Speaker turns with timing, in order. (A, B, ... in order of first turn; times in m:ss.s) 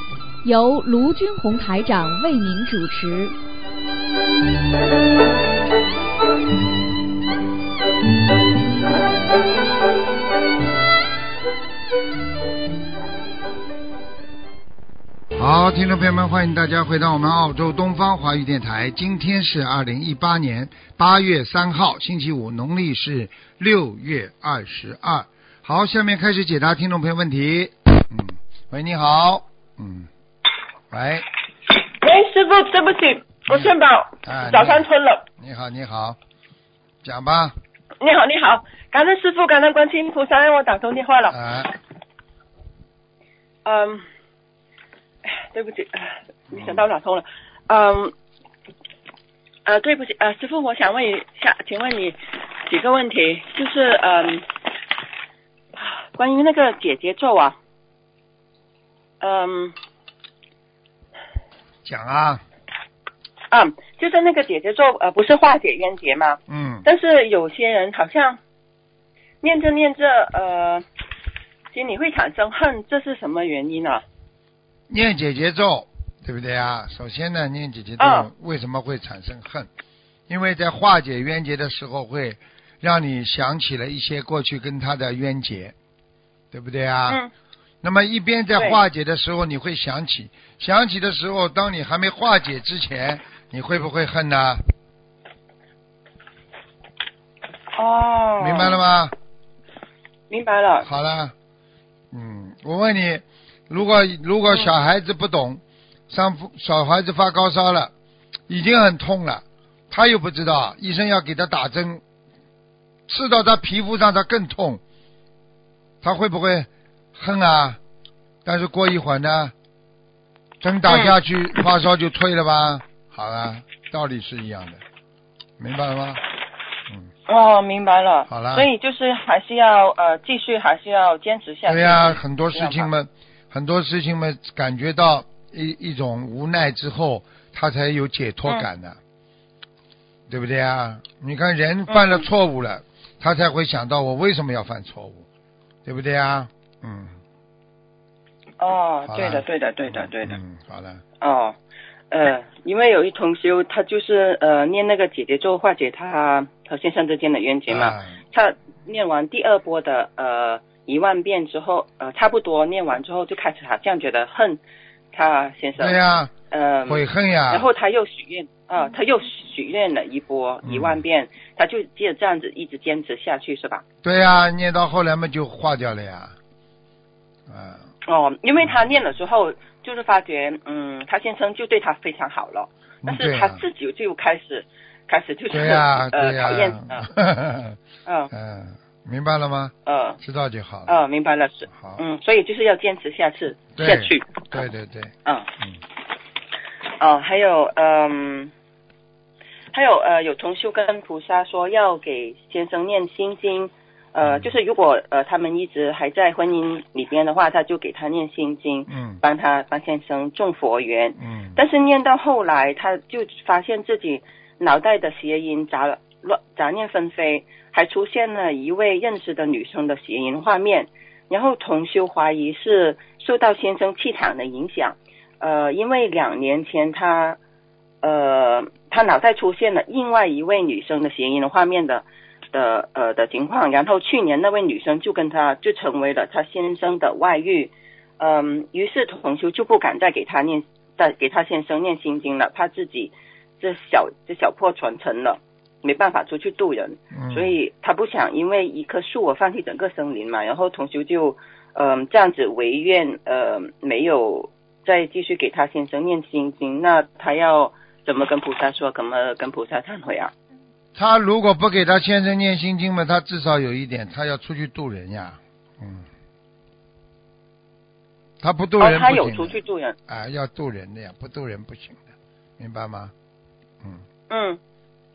0:00.4-0:03.4 A
0:15.4-0:30.1 B
0:30.9-0:31.3 B
0:31.8-0:35.2 C
0:33.5-0:36.2 B
0:37.0-0:37.5 B
0:38.0-0:41.4 C
0:41.3-0:41.7 B
0:43.6-0:44.0 C
0:45.2-0:48.1 C
0:46.5-0:46.8 B
0:49.6-0:54.5 C
0:55.8-0:57.6 C
0:59.2-0:59.7 C
1:01.8-1:02.4 B
1:03.5-1:08.4 C
1:06.5-1:06.8 B
1:09.4-1:10.8 C
1:11.7-1:14.0 C
1:14.9-1:19.7 B
1:18.0-1:18.3 C
1:20.3-1:25.7 B
1:26.5-1:27.2 B
1:27.8-1:34.6 B
1:37.7-1:38.8 C
1:38.4-1:39.1 B
1:40.3-1:40.9 C
1:40.8-1:41.3 B
1:42.1-1:47.9 B
1:48.5-1:52.0 B
1:53.1-1:54.8 B
1:56.0-1:57.8 B
1:58.4-1:59.5 B
2:00.6-2:04.8 B
2:00.9-2:01.2 C
2:05.6-2:06.2 B
2:07.3-2:12.9 C
2:08.3-2:08.7 B
2:11.6-2:19.0 B
2:20.3-2:25.2 B
2:21.9-2:22.2 C
2:25.8-2:27.2 B
2:28.6-2:30.4 C
2:29.1-2:31.0 B
2:31.2-2:31.6 C
2:32.1-2:44.6 C
2:37.7-2:38.2 B
2:45.1-2:53.8 C
2:45.8-2:46.3 B
2:46.9-2:47.7 B
2:50.6-2:51.0 B
2:54.0-2:56.4 B
2:57.5-2:57.8 B
2:58.0-3:07.1 C
3:03.0-3:03.6 B
3:05.5-3:07.8 B
3:08.0-3:08.3 C
3:08.3-3:11.0 B
3:09.8-3:10.2 C
3:10.9-3:14.6 C
3:11.7-3:12.0 B
3:13.8-3:15.8 B
3:17.0-3:18.5 C
3:19.7-3:47.4 C
3:24.2-3:24.5 B
3:28.9-3:29.2 B
3:31.2-3:31.6 B
3:48.0-4:20.3 C
4:07.1-4:07.5 B
4:21.0-4:26.1 B
4:28.4-4:32.0 B
4:28.8-4:30.0 C
4:32.6-4:33.1 B
4:34.3-4:34.6 C